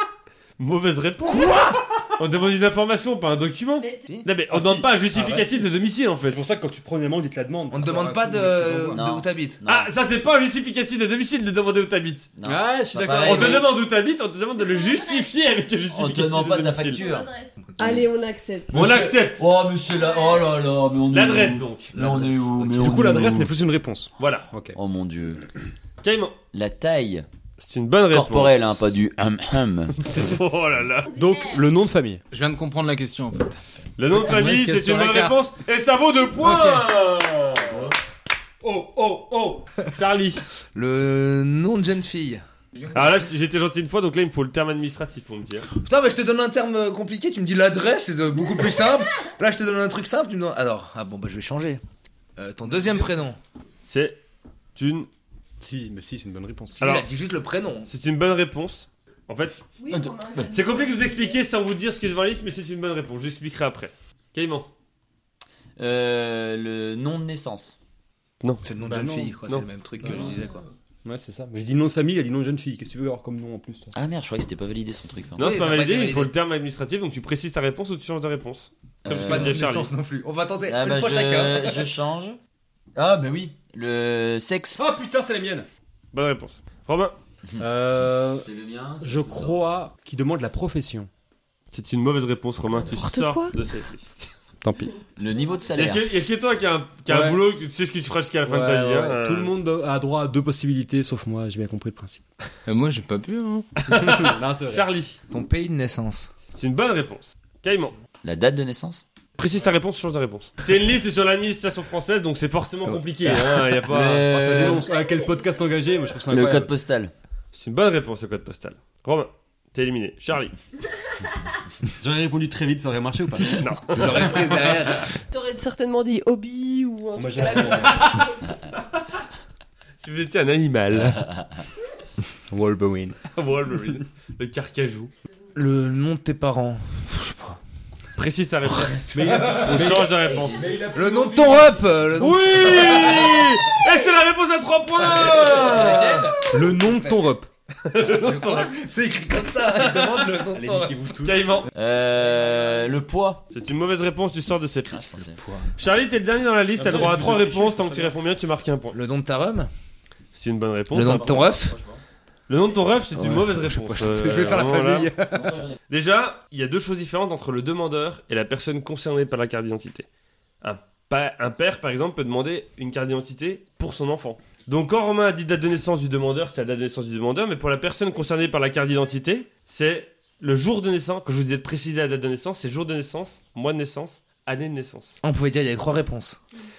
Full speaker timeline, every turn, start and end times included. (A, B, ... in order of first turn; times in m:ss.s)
0:00.6-0:06.4 A
0:01.3-0:01.8 B
0:03.8-0:04.0 C
0:04.5-0:05.6 D
0:06.2-0:09.0 D
0:07.7-0:09.6 B
0:08.9-0:09.9 E
0:09.7-0:12.3 A
0:12.4-0:13.7 E
0:12.4-0:13.7 D
0:13.2-0:17.1 A
0:15.9-0:17.3 E
0:17.0-0:18.8 C
0:18.7-0:19.5 A
0:18.7-0:23.5 E
0:21.1-0:21.9 A
0:21.9-0:22.7 B
0:22.7-0:24.8 D
0:24.2-0:24.5 A
0:24.7-0:25.4 E
0:26.0-0:26.4 A
0:26.5-0:27.3 E
0:27.6-0:28.8 A
0:28.1-0:30.1 E
0:30.0-0:31.1 A
0:31.1-0:32.2 D
0:32.3-0:33.6 F
0:34.0-0:38.0 A
0:34.1-0:35.4 F
0:36.4-0:36.8 F
0:38.6-0:39.7 D
0:39.9-0:40.4 A
0:40.7-0:42.4 B
0:42.9-0:45.7 A
0:45.7-0:51.8 B
0:52.4-0:53.4 B
0:53.8-0:54.2 A
0:54.8-0:55.1 A
0:55.6-0:56.8 D
0:56.8-0:57.9 B
0:56.8-0:57.1 A
0:57.9-0:59.7 A
0:59.8-1:01.3 C
0:59.9-1:00.5 E
1:00.4-1:04.7 A
1:05.8-1:07.8 E
1:08.6-1:10.6 B
1:08.8-1:09.4 D
1:11.0-1:13.9 D
1:13.9-1:15.5 E
1:15.4-1:19.9 A
1:15.4-1:16.3 B
1:19.0-1:19.6 E
1:19.1-1:21.9 B
1:20.6-1:22.4 E
1:23.0-1:24.8 E
1:24.8-1:25.7 D
1:26.1-1:27.2 A
1:27.6-1:28.5 D
1:28.3-1:29.6 E
1:29.0-1:31.1 D
1:31.7-1:34.3 A
1:32.9-1:33.5 C
1:34.6-1:34.9 D
1:35.2-1:36.1 E
1:35.8-1:39.5 A
1:37.1-1:37.4 D
1:38.4-1:42.2 D
1:42.7-1:43.7 F
1:43.8-1:45.2 A
1:43.9-1:44.9 D
1:45.3-1:46.3 B
1:46.5-1:48.0 A
1:48.2-1:49.0 E
1:49.4-1:54.3 A
1:53.8-1:54.8 E
1:54.1-1:56.7 D
1:56.3-1:57.1 E
1:57.5-2:00.6 A
2:02.0-2:03.7 D
2:03.6-2:04.7 A
2:03.9-2:05.1 B
2:05.3-2:08.4 C
2:07.2-2:08.2 D
2:07.9-2:08.2 A
2:10.0-2:11.3 A
2:12.5-2:13.3 D
2:13.3-2:15.1 A
2:15.6-2:17.6 B
2:18.2-2:20.7 A
2:18.7-2:19.8 B
2:19.1-2:22.3 D
2:20.1-2:21.9 E
2:20.9-2:23.7 B
2:22.2-2:26.4 A
2:25.2-2:27.3 B
2:25.7-2:26.5 F
2:25.7-2:26.3 E
2:26.4-2:27.5 D
2:27.9-2:28.8 A
2:28.0-2:31.0 B
2:29.7-2:30.4 A
2:30.5-2:31.7 D
2:31.2-2:31.7 A
2:31.7-2:33.4 E
2:33.5-2:35.2 A
2:34.9-2:35.4 E
2:35.2-2:35.7 B
2:35.8-2:39.0 A
2:36.8-2:38.2 D
2:38.9-2:39.7 B
2:40.3-2:41.6 A
2:40.9-2:41.8 B
2:41.0-2:42.0 E
2:42.5-2:45.1 A
2:43.2-2:45.6 B
2:45.3-2:45.8 E
2:45.9-2:50.1 A
2:50.6-3:05.2 A
3:05.2-3:06.4 B